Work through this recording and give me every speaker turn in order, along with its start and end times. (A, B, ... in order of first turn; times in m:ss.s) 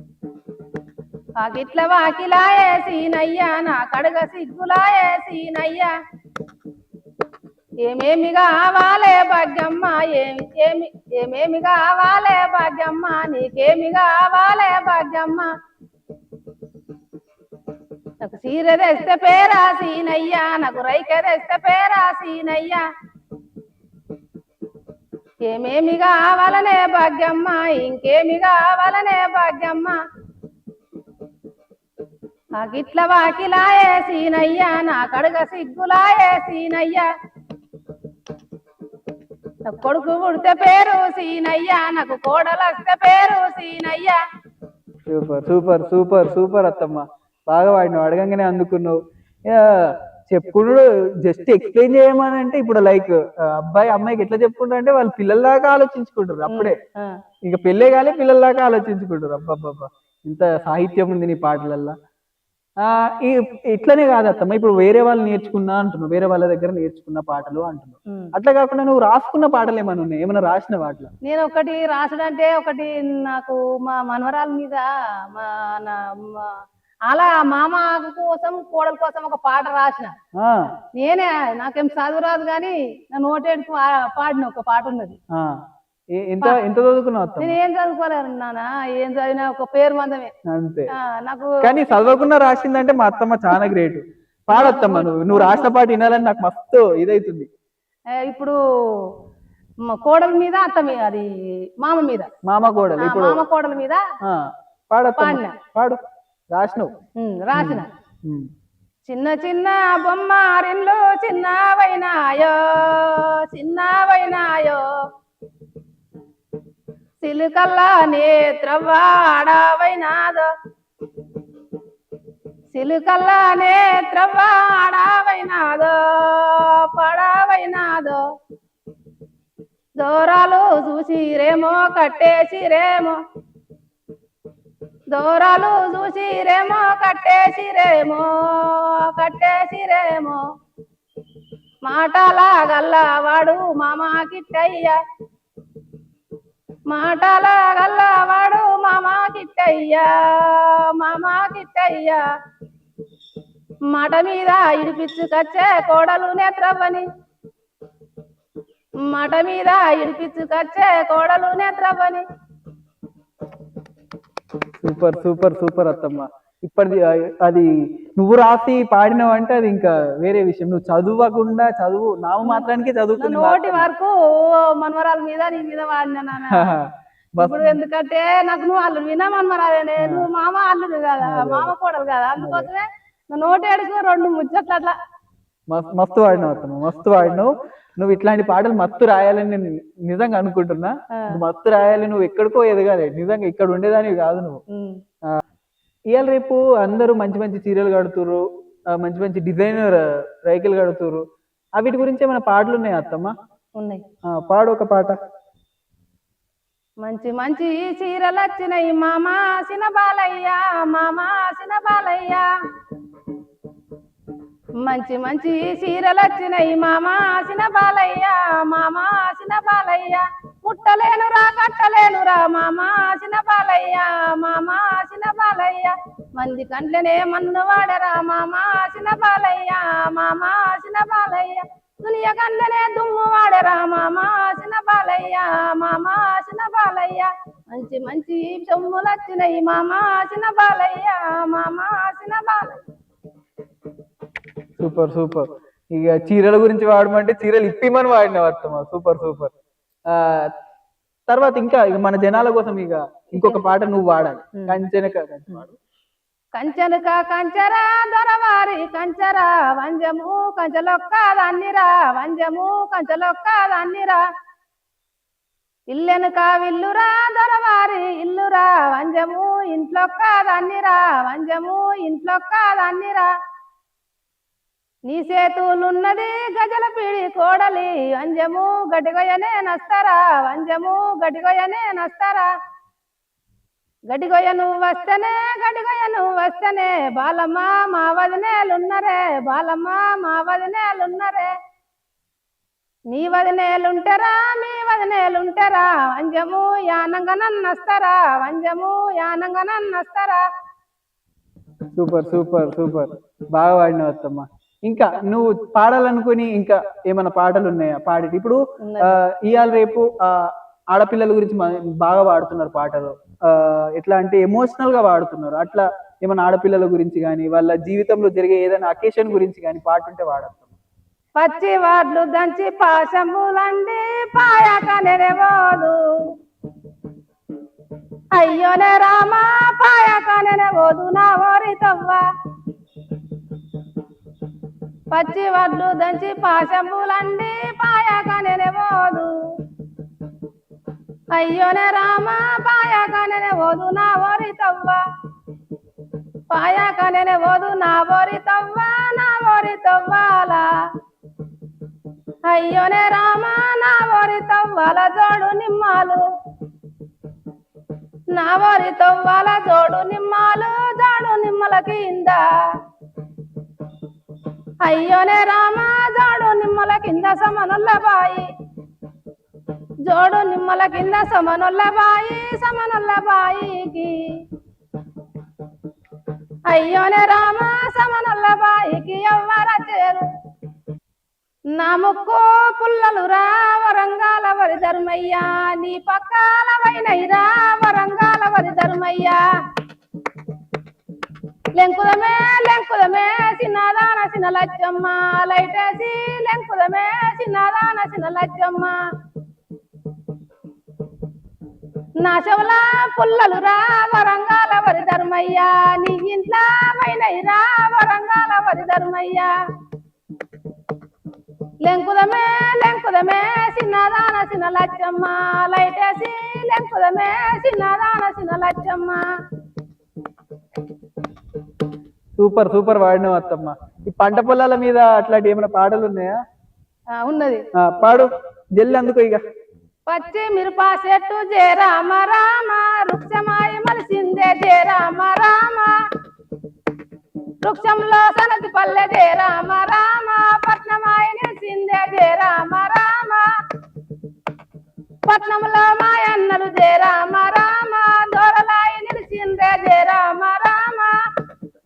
0:01.4-0:05.9 A
0:07.8-0:15.5 A
0:18.2-0:22.8 A
0:25.5-0:30.0 A
0:32.6-0:37.1 A
0:39.7-0:44.2 A
0:45.1-0:56.8 B
0:56.5-0:57.1 A
0:57.5-1:02.0 B
1:02.8-1:11.1 B
1:11.2-1:20.1 A
1:20.4-1:20.7 B
1:20.9-1:25.2 A
1:25.3-1:25.6 B
1:26.1-1:27.6 B
1:27.4-1:30.3 A
1:30.5-1:30.9 B
1:30.9-1:31.6 A
1:31.6-1:37.5 B
1:34.5-1:35.7 A
1:38.1-1:39.1 A
1:39.8-1:42.3 A
1:42.4-1:43.4 B
1:43.0-1:44.0 A
1:44.2-1:46.0 B
1:45.2-1:45.6 A
1:46.5-1:46.9 B
1:47.2-1:47.9 A
1:47.5-1:48.5 B
1:49.1-1:55.0 A
1:57.2-2:00.5 A
2:02.7-2:08.2 A
2:10.0-2:13.2 A
2:15.1-2:20.4 A
2:21.8-2:25.0 A
2:26.9-2:32.2 A
2:33.9-2:37.1 A
2:39.0-2:42.2 A
2:44.8-2:53.9 B
2:52.4-2:56.7 A
2:56.4-2:57.8 B
2:57.4-3:05.0 A
3:00.0-3:00.3 B
3:01.2-3:01.7 B
3:02.4-3:02.7 B
3:05.7-3:14.6 B
3:11.1-3:11.4 A
3:14.7-3:15.0 A
3:16.1-3:21.2 B
3:21.8-3:23.3 B
3:23.8-3:24.0 A
3:24.2-3:25.2 B
3:27.0-3:32.5 A
3:34.8-4:02.8 A
4:04.8-4:09.5 B
4:10.1-4:10.5 B
4:11.3-4:15.8 B
4:13.3-4:13.6 A
4:16.5-4:24.2 A
4:25.9-4:33.3 A
4:35.0-4:42.5 A
4:44.1-4:51.5 A
4:53.1-5:00.4 A
5:01.9-5:20.7 B
5:08.8-5:09.2 A
5:21.4-5:26.0 A
5:28.3-5:32.2 A
5:35.1-5:39.3 A
5:41.3-5:45.0 A
5:46.5-5:50.7 A
5:52.5-5:56.2 A
5:58.3-6:02.7 A
6:04.8-6:08.5 A
6:10.0-6:14.3 A
6:16.7-6:20.3 A
6:21.7-6:29.4 A
6:31.7-6:39.0 A
6:42.2-6:49.5 A
6:51.8-6:59.3 A
7:02.4-7:06.4 B
7:07.1-7:07.6 A
7:07.8-7:09.4 B
7:10.1-7:16.0 A
7:17.6-7:23.5 A
7:25.3-7:31.2 A